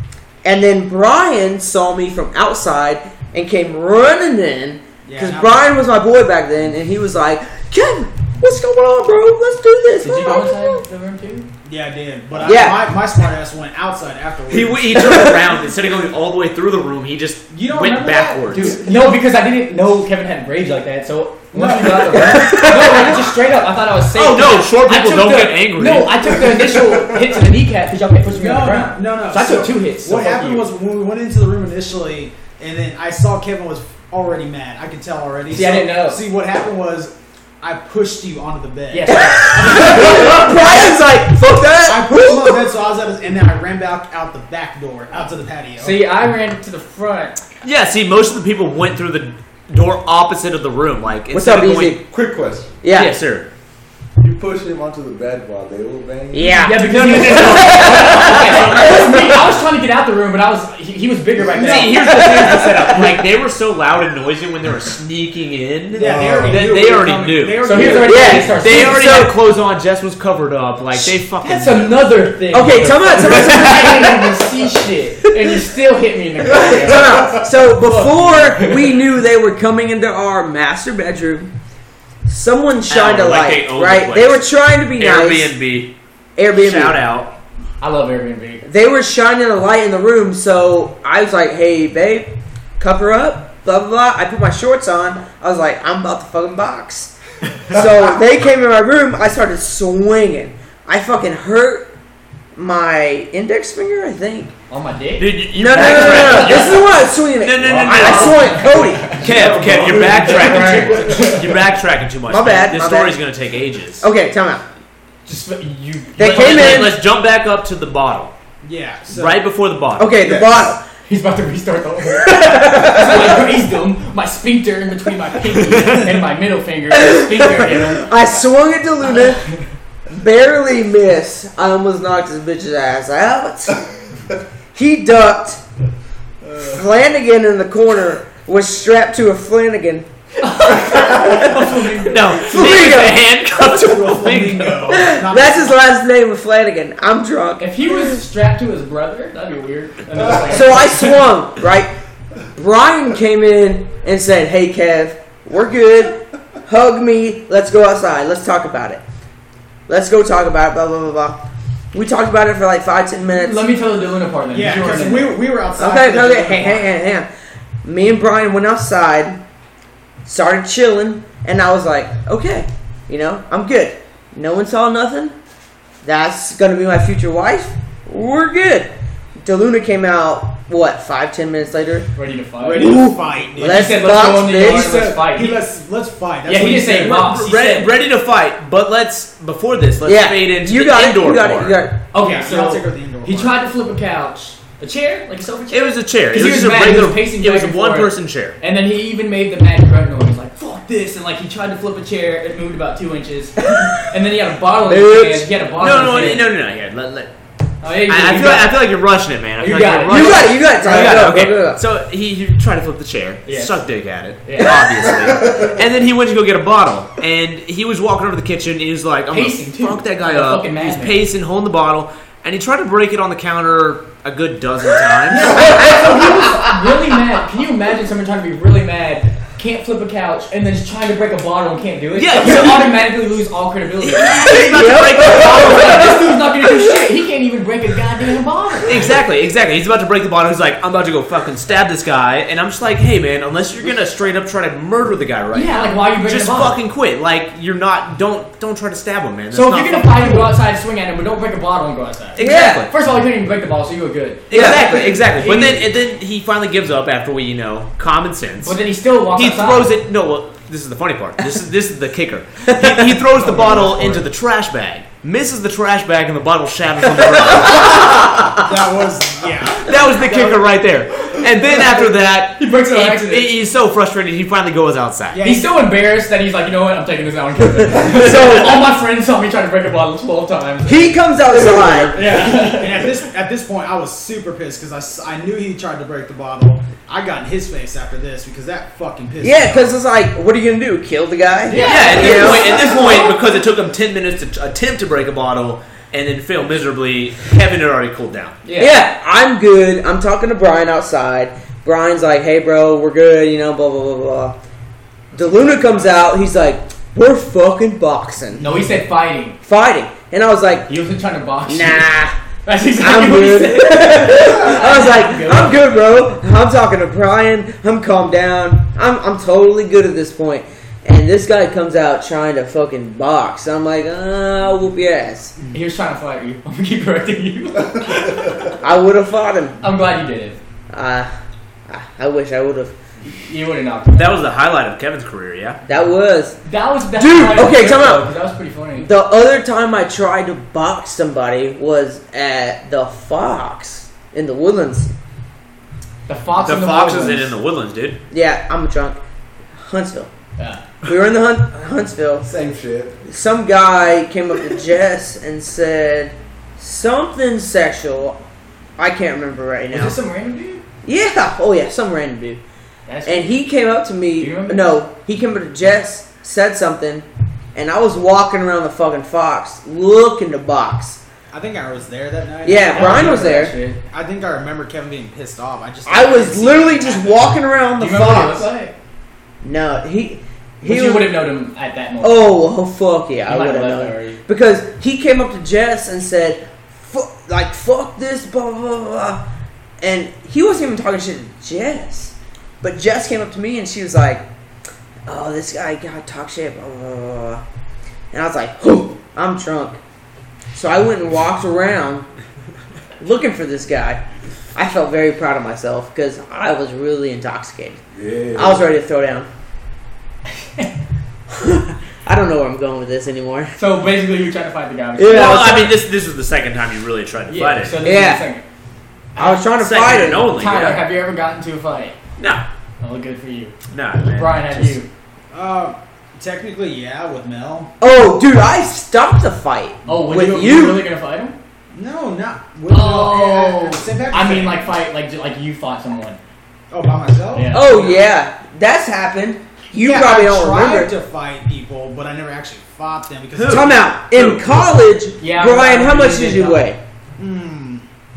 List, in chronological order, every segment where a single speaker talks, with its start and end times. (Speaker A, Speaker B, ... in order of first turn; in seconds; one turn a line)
Speaker A: 0.4-10.8
Speaker B: 5.0-5.8
Speaker C: 10.0-11.5
Speaker B: 11.6-15.1
Speaker A: 12.4-12.9
Speaker D: 14.5-18.8
Speaker A: 14.9-15.4
Speaker B: 17.5-19.2
Speaker C: 18.5-30.7
Speaker B: 21.5-22.6
Speaker A: 22.4-23.1
Speaker D: 24.1-26.4
Speaker E: 26.5-27.3
Speaker B: 28.3-40.5
Speaker C: 35.5-36.2
Speaker C: 38.9-40.6
Speaker A: 39.1-42.6
Speaker B: 41.8-46.0
Speaker C: 45.8-47.4
Speaker D: 47.6-52.0
Speaker A: 51.3-52.0
Speaker E: 52.1-52.8
Speaker A: 52.8-53.1
Speaker D: 52.9-53.5
Speaker E: 54.2-57.2
Speaker A: 56.3-59.5
Speaker C: 56.5-62.2
Speaker E: 61.4-61.8
Speaker D: 61.5-72.3
Speaker A: 61.9-63.2
Speaker B: 65.9-68.6
Speaker E: 66.0-66.7
Speaker C: 67.6-69.2
Speaker A: 68.0-69.3
Speaker C: 71.4-79.0
Speaker A: 72.5-74.4
Speaker D: 72.8-74.2
Speaker A: 76.5-81.5
Speaker E: 76.5-77.4
Speaker A: 82.2-85.5
Speaker D: 82.9-85.9
Speaker A: 86.3-87.0
Speaker D: 86.5-87.3
Speaker C: 87.8-88.6
Speaker A: 88.6-97.1
Speaker A: 97.7-101.9
Speaker A: 102.5-104.5
Speaker C: 104.7-106.8
Speaker D: 105.2-114.0
Speaker A: 105.5-109.2
Speaker C: 107.6-111.6
Speaker E: 109.2-111.4
Speaker A: 112.3-113.2
Speaker A: 114.0-114.6
Speaker C: 115.2-116.9
Speaker A: 116.2-117.0
Speaker D: 116.2-118.3
Speaker B: 118.6-119.4
Speaker D: 119.1-120.3
Speaker A: 120.0-120.9
Speaker C: 121.0-128.1
Speaker A: 122.2-123.5
Speaker D: 125.7-126.1
Speaker A: 126.9-129.4
Speaker C: 129.1-129.7
Speaker A: 130.1-133.9
Speaker A: 134.7-135.6
Speaker A: 136.5-140.1
Speaker C: 140.4-143.0
Speaker A: 140.8-141.7
Speaker D: 142.0-144.9
Speaker A: 142.4-143.2
Speaker B: 143.5-145.8
Speaker A: 144.9-147.7
Speaker C: 147.6-151.2
Speaker A: 150.4-151.9
Speaker A: 152.5-159.0
Speaker A: 159.9-161.4
Speaker A: 161.9-163.6
Speaker C: 163.3-165.4
Speaker B: 164.5-166.9
Speaker A: 165.8-167.3
Speaker A: 167.8-169.4
Speaker A: 170.2-175.3
Speaker A: 176.0-182.1
Speaker C: 182.1-185.6
Speaker B: 182.6-187.8
Speaker A: 182.7-185.0
Speaker C: 186.4-187.8
Speaker D: 186.9-191.8
Speaker A: 190.0-192.0
Speaker C: 192.1-206.5
Speaker B: 192.2-193.6
Speaker D: 195.7-198.6
Speaker A: 203.6-204.0
Speaker A: 204.8-205.5
Speaker D: 205.8-207.3
Speaker C: 207.8-208.8
Speaker D: 208.0-225.7
Speaker C: 209.6-211.2
Speaker A: 210.1-211.8
Speaker C: 213.4-213.8
Speaker C: 214.4-214.9
Speaker E: 215.3-215.7
Speaker C: 219.3-221.2
Speaker C: 225.3-239.1
Speaker A: 225.5-226.6
Speaker D: 232.1-233.0
Speaker D: 234.0-236.2
Speaker A: 234.4-236.9
Speaker D: 238.8-250.5
Speaker C: 245.5-246.8
Speaker C: 249.5-255.9
Speaker D: 252.3-252.9
Speaker A: 252.4-252.8
Speaker D: 254.5-258.8
Speaker A: 254.5-255.2
Speaker C: 258.6-259.9
Speaker D: 259.3-268.4
Speaker A: 262.8-263.2
Speaker B: 263.4-264.2
Speaker A: 267.6-268.4
Speaker B: 268.5-270.4
Speaker D: 269.7-275.4
Speaker C: 271.2-271.9
Speaker C: 272.6-273.5
Speaker B: 275.3-275.7
Speaker C: 275.4-281.2
Speaker A: 277.9-278.9
Speaker A: 280.8-282.2
Speaker C: 282.1-283.1
Speaker B: 282.4-290.0
Speaker A: 289.4-293.4
Speaker C: 291.7-293.0
Speaker D: 291.7-298.6
Speaker C: 298.6-299.0
Speaker A: 298.8-304.6
Speaker A: 305.3-308.7
Speaker C: 308.6-309.6
Speaker A: 309.6-310.9
Speaker C: 310.9-315.9
Speaker A: 311.6-312.4
Speaker A: 313.0-325.6
Speaker C: 325.7-328.7
Speaker A: 328.8-329.8
Speaker C: 329.8-330.6
Speaker A: 330.9-331.3
Speaker A: 331.9-332.9
Speaker C: 333.3-334.4
Speaker D: 334.1-335.8
Speaker A: 335.9-338.3
Speaker C: 336.6-339.1
Speaker A: 338.9-345.1
Speaker C: 346.3-347.6
Speaker D: 346.6-348.2
Speaker A: 348.3-349.2
Speaker A: 349.8-350.3
Speaker C: 350.6-350.9
Speaker A: 351.0-352.5
Speaker E: 352.4-353.2
Speaker A: 353.2-358.4
Speaker A: 359.0-360.2
Speaker C: 359.9-360.8
Speaker A: 361.0-362.6
Speaker C: 363.1-363.6
Speaker A: 363.2-371.2
Speaker C: 364.4-365.0
Speaker B: 371.5-373.5
Speaker A: 372.6-373.7
Speaker C: 372.9-374.0
Speaker B: 374.1-377.5
Speaker A: 376.1-378.7
Speaker C: 378.0-378.9
Speaker A: 379.6-381.5
Speaker C: 380.8-382.6
Speaker A: 382.2-389.4
Speaker C: 383.4-384.4
Speaker A: 390.0-394.4
Speaker A: 395.2-397.6
Speaker A: 398.3-400.0
Speaker A: 400.7-402.3
Speaker A: 403.2-404.2
Speaker A: 404.7-408.0
Speaker E: 408.1-408.9
Speaker A: 408.5-409.5
Speaker A: 411.5-413.7
Speaker C: 413.8-415.8
Speaker A: 415.1-416.0
Speaker D: 415.2-418.0
Speaker C: 417.5-418.6
Speaker A: 418.0-418.4
Speaker C: 419.4-419.6
Speaker A: 419.4-420.5
Speaker D: 419.8-421.0
Speaker C: 420.5-422.2
Speaker D: 422.4-422.6
Speaker C: 423.0-423.7
Speaker D: 423.9-425.0
Speaker C: 424.2-425.1
Speaker B: 425.5-427.9
Speaker A: 428.0-431.1
Speaker C: 430.1-431.6
Speaker B: 431.9-435.0
Speaker C: 432.9-436.4
Speaker B: 436.9-437.8
Speaker C: 437.5-438.2
Speaker A: 437.7-441.1
Speaker B: 440.0-444.0
Speaker D: 443.6-444.9
Speaker A: 443.6-447.0
Speaker C: 445.4-446.9
Speaker B: 447.4-448.0